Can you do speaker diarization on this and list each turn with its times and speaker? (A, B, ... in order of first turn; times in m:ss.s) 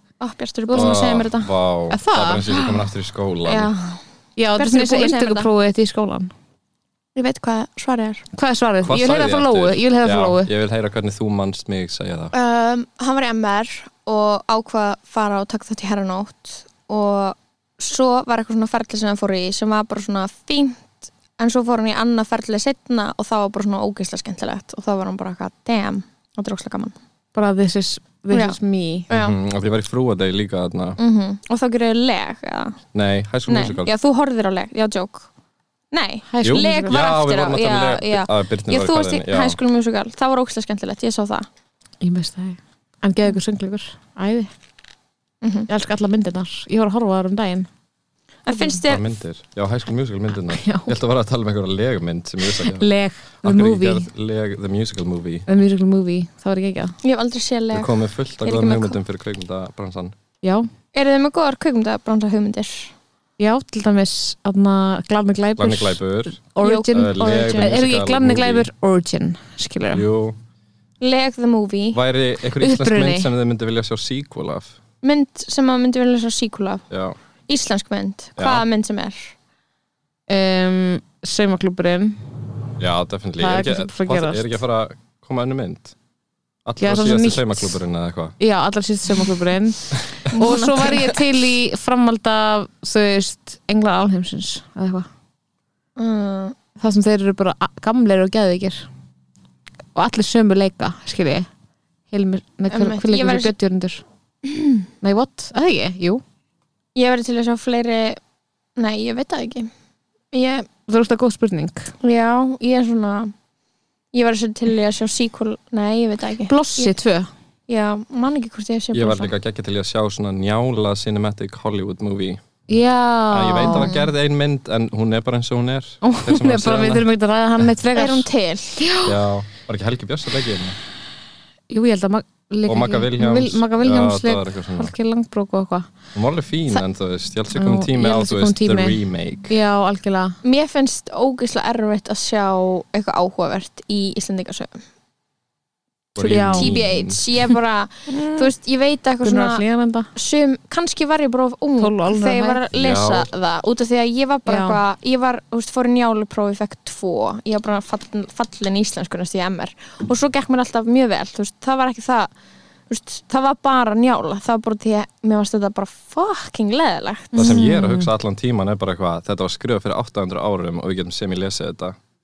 0:00.2-0:01.5 A
0:00.7-0:03.7 B
0:01.9-0:02.6 C
0:03.5-0:04.0 A
0:04.4-0:06.3 C
0:04.6-0:05.5 A
0:07.2-0:08.2 A
0:08.3-0:10.5 C
0:08.8-0:12.3 B
0:12.3-0:27.0 A
0:27.4-0:29.1 C
0:28.3-0:28.6 A
0:29.1-0:29.4 A
0:29.1-0:31.0 B
0:31.0-0:32.8 A
0:32.9-0:33.9 B
0:33.5-0:35.3 A
0:35.9-0:41.5 A
0:36.3-0:37.0 C
0:36.4-0:39.6 B
0:42.0-0:44.5 C
0:45.4-0:45.7 A
0:45.7-0:47.7 C
0:48.5-0:49.1 A
0:48.9-0:52.9 B
0:50.5-0:50.9 C
0:52.4-0:54.1 C
0:53.4-0:55.5 B
0:55.5-0:56.9 C
0:57.0-0:57.9 A
0:57.7-1:00.2 B
0:58.4-0:59.0 A
1:00.4-1:00.7 C
1:00.9-1:02.9 A
1:03.4-1:10.0 C
1:05.6-1:08.6 B
1:06.6-1:07.7 A
1:09.9-1:10.4 B
1:11.0-1:12.0 A
1:11.9-1:14.8 B
1:12.6-1:13.3 C
1:15.0-1:16.8 A
1:16.9-1:17.2 B
1:17.5-1:19.3 A
1:18.4-1:18.6 B
1:20.3-1:22.3 C
1:22.8-1:25.9 B
1:23.4-1:24.6 C
1:26.6-1:28.4 B
1:26.8-1:27.8 C
1:28.4-1:35.1 C
1:30.3-1:31.1 A
1:36.0-1:36.6 A
1:36.8-1:38.9 C
1:39.9-1:41.5 C
1:42.1-1:44.0 C
1:42.7-1:43.5 A
1:44.5-1:44.8 A
1:45.0-1:46.2 C
1:46.9-1:48.2 A
1:48.8-1:49.7 A
1:50.3-1:50.7 A
1:50.9-1:51.9 C
1:52.0-1:53.3 A
1:54.1-1:56.9 A
1:56.5-1:57.3 C
1:57.7-1:59.3 A
1:58.9-2:02.4 B
2:02.7-2:03.9 C
2:03.3-2:07.1 B
2:03.6-2:04.1 A
2:06.0-2:08.2 C
2:07.9-2:08.8 A
2:08.8-2:09.2 C
2:09.0-2:10.8 B
2:11.7-2:15.9 C
2:12.7-2:14.9 B
2:16.2-2:19.5 B
2:17.5-2:19.0 C
2:19.5-2:20.4 C
2:20.4-2:24.8 A
2:26.2-2:27.2 B
2:26.2-2:26.8 C
2:26.3-2:29.6 A
2:28.1-2:28.5 C
2:29.2-2:30.1 C
2:30.2-2:42.3 A
2:31.8-2:32.6 C
2:32.8-2:33.3 B
2:34.5-2:34.8 C
2:42.9-2:47.5 A
2:47.3-2:48.1 C
2:47.4-2:52.0 B